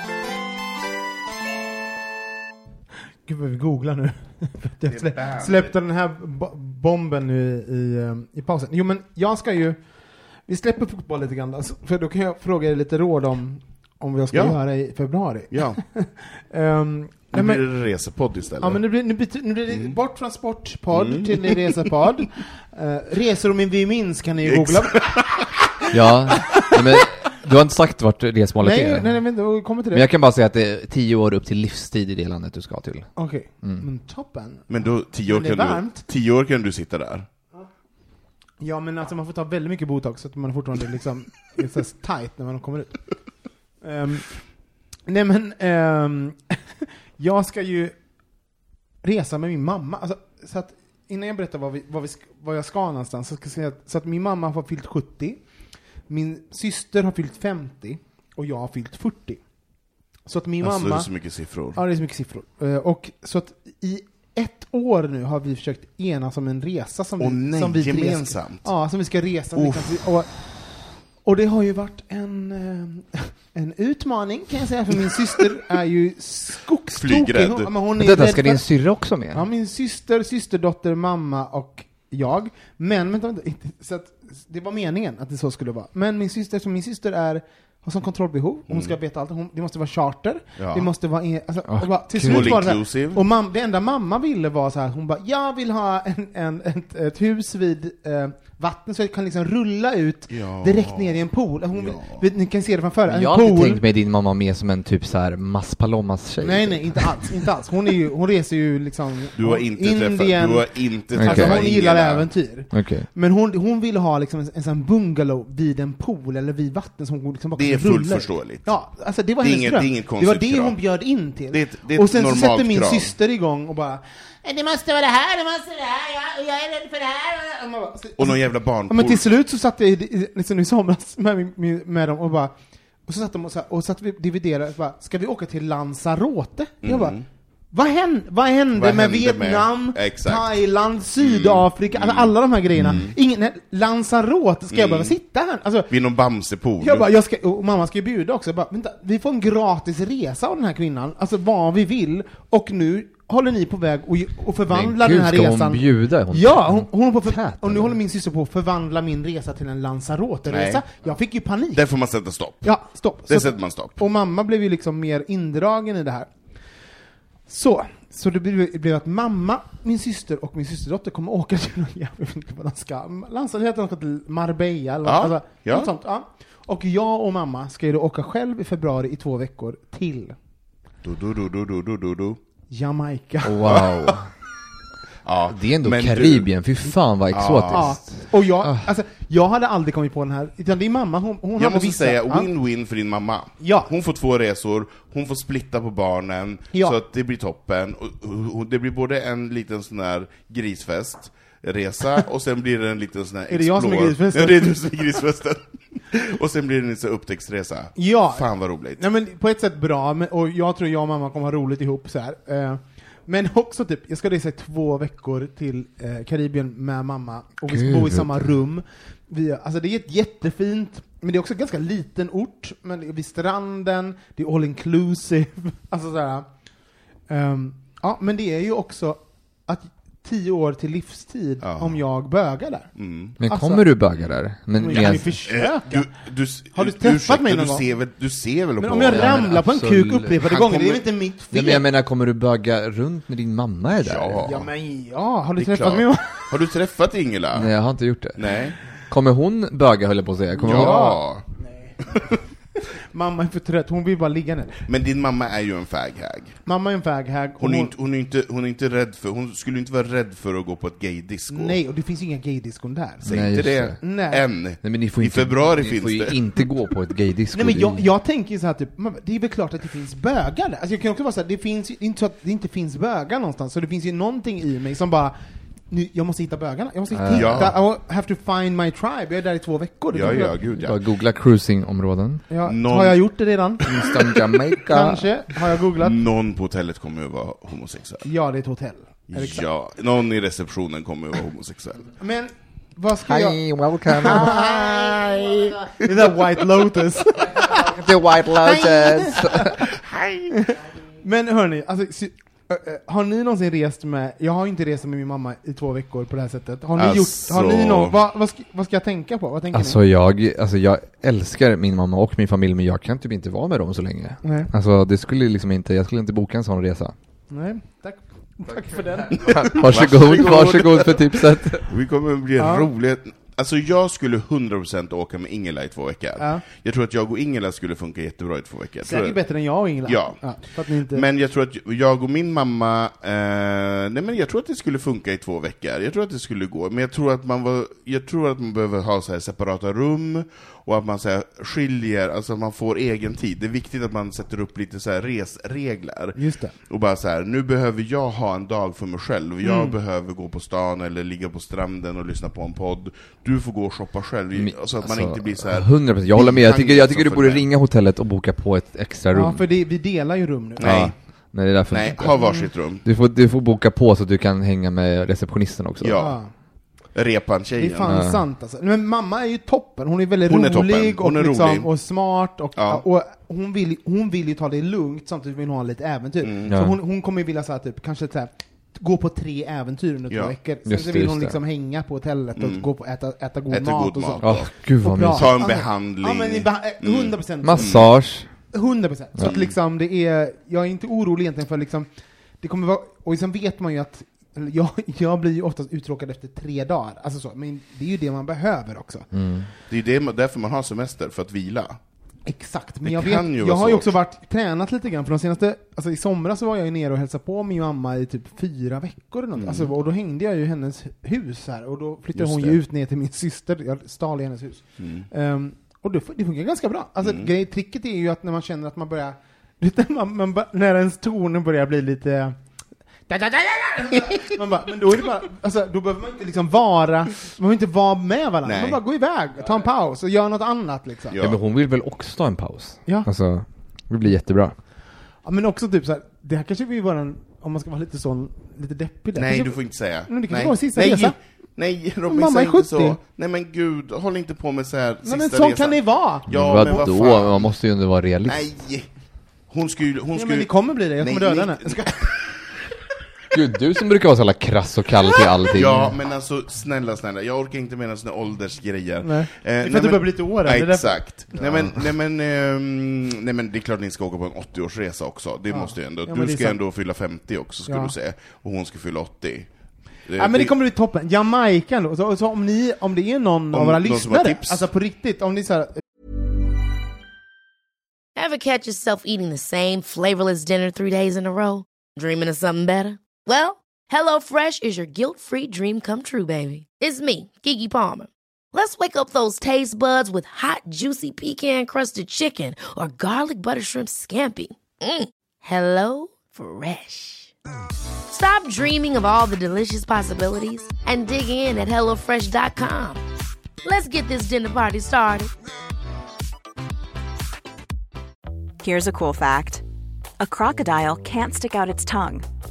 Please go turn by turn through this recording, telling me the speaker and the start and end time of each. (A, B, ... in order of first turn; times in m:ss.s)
0:03.2-0:17.6 A
0:04.9-0:05.7 B
0:14.3-0:14.6 B
0:15.5-0:15.8 B
0:17.3-0:18.8 B
0:18.6-0:25.2 A
0:19.7-0:19.9 B
0:20.9-0:21.8 B
0:24.4-0:25.5 B
0:25.9-0:29.1 C
0:28.6-0:30.1 A
0:29.9-0:33.1 C
0:33.2-0:36.0 A
0:34.7-0:37.2 B
0:38.6-0:43.2 A
0:43.8-0:44.4 A
0:45.0-0:46.6 A
0:47.2-0:47.9 A
0:49.0-0:55.4 A
0:56.0-0:59.4 A
1:00.2-1:18.7 A
1:00.6-1:01.8 B
1:07.2-1:08.7 B
1:09.5-1:10.1 B
1:16.9-1:17.7 B
1:18.0-1:19.4 C
1:19.3-1:43.8 A
1:30.6-1:30.9 B
1:31.7-1:32.6 C
1:32.2-1:33.2 B
1:40.3-1:41.2 B
1:41.7-1:42.2 B
1:43.0-1:47.4 C
1:46.4-2:12.5 A
1:49.3-1:52.3 B
1:51.2-1:51.6 C
1:52.7-1:53.1 C
1:57.6-1:58.8 B
1:59.4-2:03.1 B
2:08.2-2:09.2 B
2:13.0-2:17.2 A
2:16.8-2:17.2 B
2:17.7-2:25.9 A
2:18.7-2:20.6 B
2:21.2-2:23.1 B
2:24.7-2:25.1 B
2:25.9-2:27.1 B
2:26.8-2:42.1 A
2:34.7-2:36.9 C
2:37.6-2:38.0 C
2:40.5-2:41.1 B
2:41.7-2:44.0 B
2:42.6-2:46.9 A
2:47.5-3:00.3 A
2:55.0-2:55.9 B
3:01.0-3:02.4 B
3:02.7-3:03.9 A
3:03.4-3:04.3 C
3:05.2-3:06.5 B
3:05.5-3:08.8 C
3:07.3-3:07.9 B
3:07.6-3:12.5 A
3:11.6-3:29.0 B
3:13.6-3:13.9 A
3:16.7-3:17.0 A
3:23.5-3:24.8 A
3:28.0-3:46.5 A
3:37.7-3:38.5 C
3:47.3-3:54.1 A
3:51.6-3:52.0 B
3:52.9-3:53.4 B
3:53.4-3:55.4 C
3:54.8-3:57.8 A
3:55.5-3:59.5 B
3:58.8-4:01.8 A
3:59.1-4:00.6 C
4:00.4-4:01.0 B
4:01.5-4:04.5 C
4:04.0-4:04.7 B
4:04.4-4:06.6 A
4:05.6-4:07.7 B
4:07.5-4:11.2 C
4:08.4-4:08.8 B
4:10.6-4:12.2 A
4:10.7-4:11.4 B
4:13.1-4:14.8 A
4:14.9-4:16.6 B
4:16.6-4:17.9 A
4:17.6-4:21.8 B
4:21.5-4:24.4 A
4:23.2-4:26.4 B
4:23.2-4:24.0 C
4:24.8-4:28.0 C
4:27.5-4:35.4 A
4:35.9-4:40.6 A
4:37.1-4:37.7 C
4:37.3-4:37.7 B
4:40.1-4:41.0 B
4:40.3-4:42.4 C
4:42.5-4:46.2 A
4:42.6-4:43.5 B
4:43.8-4:45.3 C
4:46.0-4:48.2 B
4:48.2-4:49.7 A
4:49.3-4:52.1 B
4:52.2-4:55.2 A
4:53.2-4:55.6 C
4:54.2-4:55.7 B
4:56.0-4:57.9 A
4:57.5-4:59.8 C
4:58.6-4:59.9 A
5:00.0-5:00.5 B
5:00.7-5:10.0 A
5:06.9-5:08.2 B
5:09.7-5:17.1 C
5:14.4-5:14.7 A
5:17.5-5:20.0 A
5:18.8-5:21.9 C
5:19.3-5:57.6 B
5:22.6-5:22.9 A
5:29.0-5:31.2 A
5:46.3-5:46.7 A
5:49.6-5:50.0 A
5:54.5-5:59.6 C
5:59.3-6:01.1 A
6:00.8-6:03.0 B
6:00.8-6:06.2 C
6:02.2-6:02.7 A
6:06.0-6:08.2 B
6:06.2-6:06.5 A
6:07.8-6:39.3 A
6:08.0-6:08.4 C
6:10.4-6:11.9 B
6:12.8-6:13.0 B
6:16.4-6:16.7 B
6:16.7-6:17.0 C
6:20.3-6:20.6 B
6:20.8-6:21.6 C
6:22.6-6:22.9 B
6:23.7-6:28.1 B
6:24.4-6:25.5 C
6:27.6-6:28.7 C
6:29.4-6:29.7 B
6:39.3-6:39.7 C
6:39.9-6:42.0 B
6:42.4-7:02.6 A
6:43.0-6:44.1 B
6:49.5-6:49.9 B
6:52.4-6:52.8 B
6:55.0-6:55.3 B
6:57.2-6:57.5 B
7:03.2-7:11.4 A
7:08.6-7:09.0 B
7:11.3-7:11.6 B
7:11.4-7:14.8 C
7:15.4-7:21.4 A
7:19.4-7:27.8 B
7:22.3-7:23.2 A
7:25.2-7:27.0 A
7:26.5-7:28.7 C
7:28.4-7:29.1 B
7:29.7-7:32.5 B
7:30.3-7:32.3 A
7:33.5-7:36.1 C
7:35.7-7:50.7 B
7:39.2-7:41.8 A
7:41.5-7:41.9 C
7:45.7-7:46.8 A
7:47.9-7:48.1 A
7:50.4-7:56.0 A
7:53.7-7:54.8 B
7:58.4-8:17.5 D
8:18.3-8:23.2 D
8:23.8-8:25.5 D
8:28.8-8:29.8 E
8:30.4-8:32.4 E